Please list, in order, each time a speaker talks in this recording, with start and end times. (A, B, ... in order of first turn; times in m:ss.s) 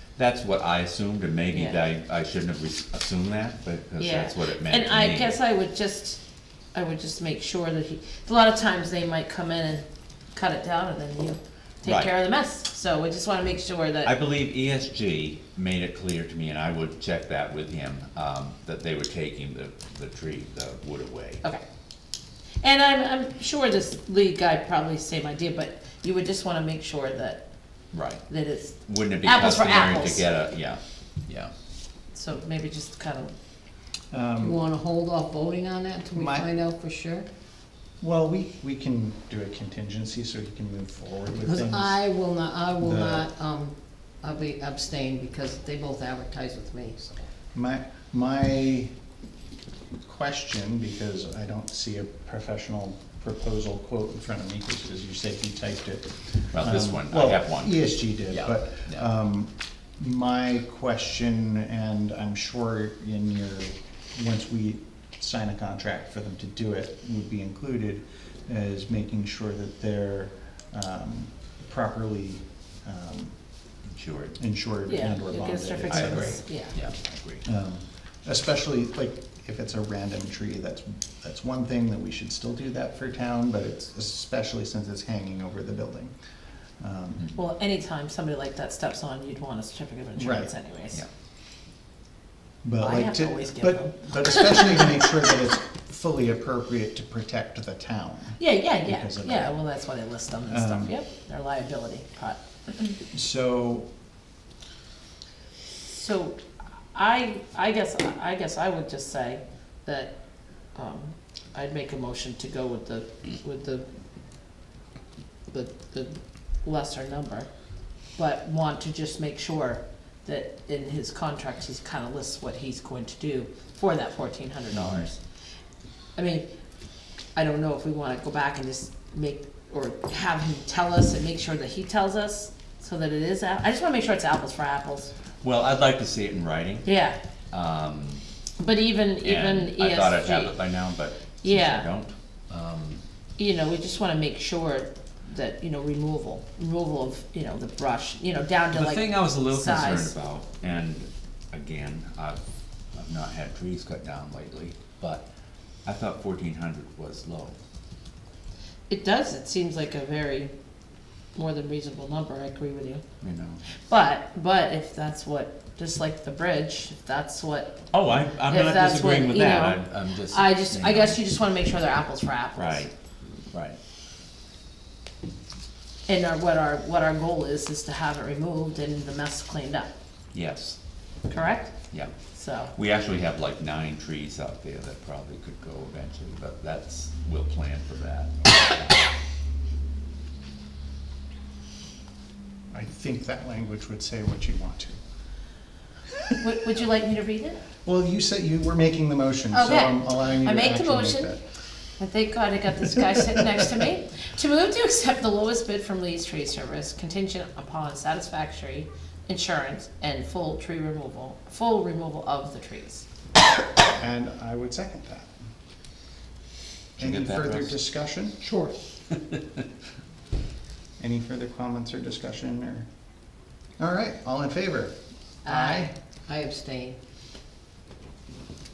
0:00.2-0:05.4 A
0:01.5-0:01.8 B
0:04.0-0:06.2 B
0:06.7-0:14.1 B
0:11.8-0:12.1 A
0:14.0-0:21.4 A
0:22.6-0:27.4 B
0:27.9-0:28.2 A
0:28.3-0:30.3 B
0:28.9-0:31.5 A
0:32.1-0:33.3 B
0:34.1-0:34.6 C
0:34.4-0:37.3 D
0:36.1-0:36.5 C
0:38.0-0:42.0 C
0:41.5-0:47.3 D
0:42.8-0:43.3 C
0:47.5-0:48.9 C
0:50.0-1:13.3 C
0:56.5-0:59.0 A
1:13.9-1:14.4 A
1:14.4-1:16.4 C
1:14.9-1:16.7 B
1:15.9-1:17.4 A
1:17.4-1:26.2 C
1:26.8-1:27.3 C
1:27.3-1:31.0 B
1:30.2-1:30.5 C
1:32.6-1:39.6 C
1:32.8-1:35.0 B
1:38.4-1:42.9 B
1:40.5-1:41.0 C
1:43.1-1:43.9 C
1:45.8-1:46.4 B
1:46.9-1:50.1 B
1:50.7-1:53.8 B
1:55.5-1:57.5 B
1:58.2-2:05.2 B
2:04.7-2:05.1 A
2:06.2-2:06.5 B
2:07.3-2:15.1 B
2:15.4-2:16.9 A
2:16.8-2:17.2 B
2:17.5-2:18.2 A
2:18.6-2:20.6 B
2:19.2-2:23.0 A
2:21.4-2:21.9 B
2:23.4-2:30.1 B
2:28.7-2:32.4 A
2:32.9-2:35.2 A
2:35.8-2:37.6 A
2:38.9-2:40.5 B
2:41.3-2:43.0 B
2:43.2-2:43.7 A
2:43.8-2:47.8 B
2:47.9-2:51.2 A
2:48.4-2:52.8 B
2:52.5-2:52.9 A
2:53.5-2:53.8 A
2:56.1-2:59.9 B
3:00.3-3:00.8 A
3:01.3-3:01.7 B
3:02.3-3:02.7 B
3:02.7-3:09.1 A
3:12.7-3:15.0 C
3:16.4-3:17.6 B
3:17.8-3:21.4 C
3:19.5-3:21.4 B
3:22.0-3:33.1 B
3:33.8-3:35.3 C
3:37.0-3:37.8 A
3:37.0-3:38.4 C
3:41.0-3:42.9 C
3:43.8-3:45.9 C
3:45.4-3:47.0 D